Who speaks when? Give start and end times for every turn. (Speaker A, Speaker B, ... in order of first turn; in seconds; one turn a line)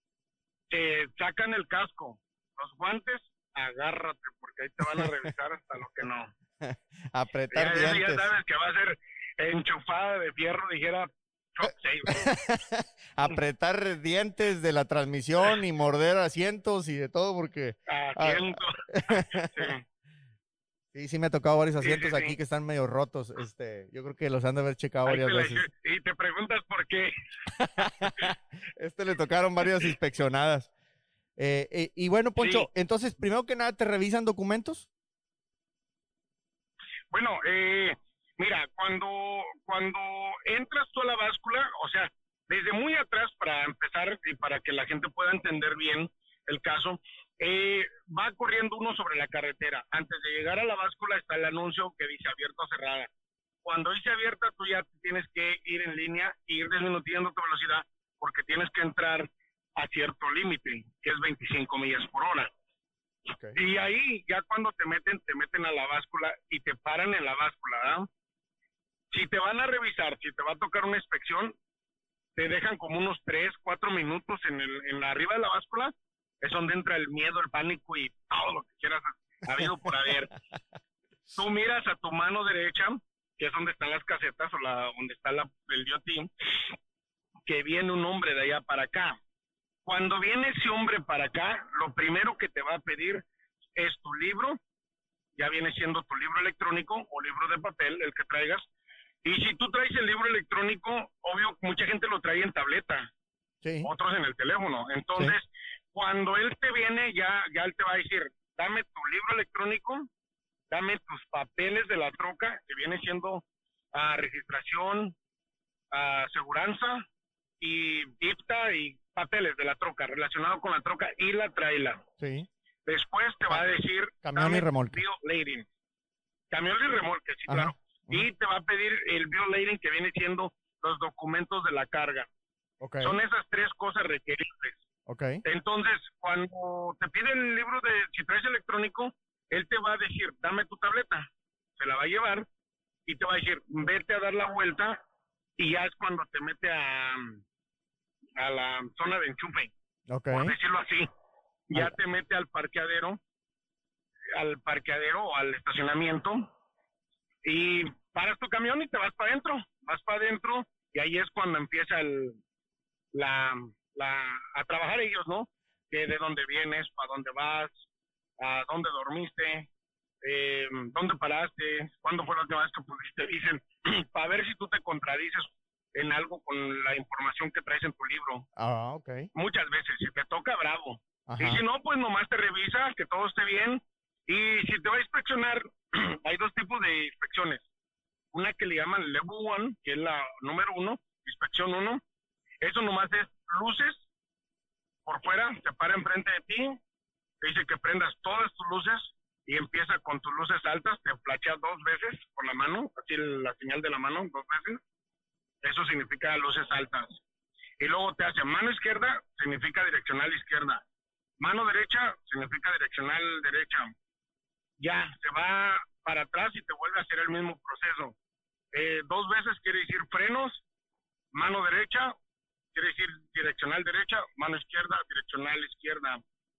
Speaker A: 0.7-6.3
Speaker B: 6.6-8.3
Speaker A: 7.5-12.3
Speaker B: 12.1-19.7
Speaker A: 17.9-19.8
Speaker B: 20.9-25.7
Speaker A: 21.8-22.4
Speaker A: 25.0-27.1
Speaker B: 27.5-30.7
Speaker B: 31.4-34.9
Speaker A: 32.4-32.7
Speaker A: 37.1-53.1
Speaker A: 53.6-62.5
Speaker B: 63.3-63.6
Speaker A: 63.5-68.1
Speaker A: 69.1-71.5
Speaker A: 72.3-80.3
Speaker A: 81.3-86.6
Speaker A: 87.5-89.2
Speaker A: 89.8-94.6
Speaker A: 95.3-98.7
Speaker A: 99.2-103.1
Speaker B: 103.6-103.9
Speaker A: 103.8-110.1
Speaker A: 110.7-115.2
Speaker A: 115.9-117.0
Speaker A: 117.6-122.0
Speaker B: 122.2-122.5
Speaker A: 122.8-125.7
Speaker B: 124.2-125.0
Speaker A: 126.5-132.3
Speaker B: 127.5-128.2
Speaker B: 132.8-133.1
Speaker A: 133.0-134.8
Speaker B: 135.1-135.4
Speaker A: 135.4-142.5
Speaker A: 143.1-145.0
Speaker A: 145.6-147.4
Speaker A: 148.4-149.7
Speaker B: 150.1-150.5
Speaker A: 150.3-151.1
Speaker A: 151.7-153.2
Speaker A: 154.3-156.5
Speaker A: 157.4-162.4
Speaker A: 163.1-167.8
Speaker A: 168.4-169.7
Speaker A: 170.2-178.4
Speaker B: 178.6-179.3
Speaker A: 179.3-187.6
Speaker B: 181.3-181.6
Speaker A: 188.3-192.0
Speaker A: 192.6-194.0
Speaker A: 195.1-196.8
Speaker A: 197.4-204.8
Speaker A: 205.6-207.2
Speaker A: 207.8-210.8
Speaker A: 211.4-213.9
Speaker A: 214.8-218.2
Speaker A: 218.7-220.6
Speaker A: 221.3-222.1
Speaker A: 222.7-226.2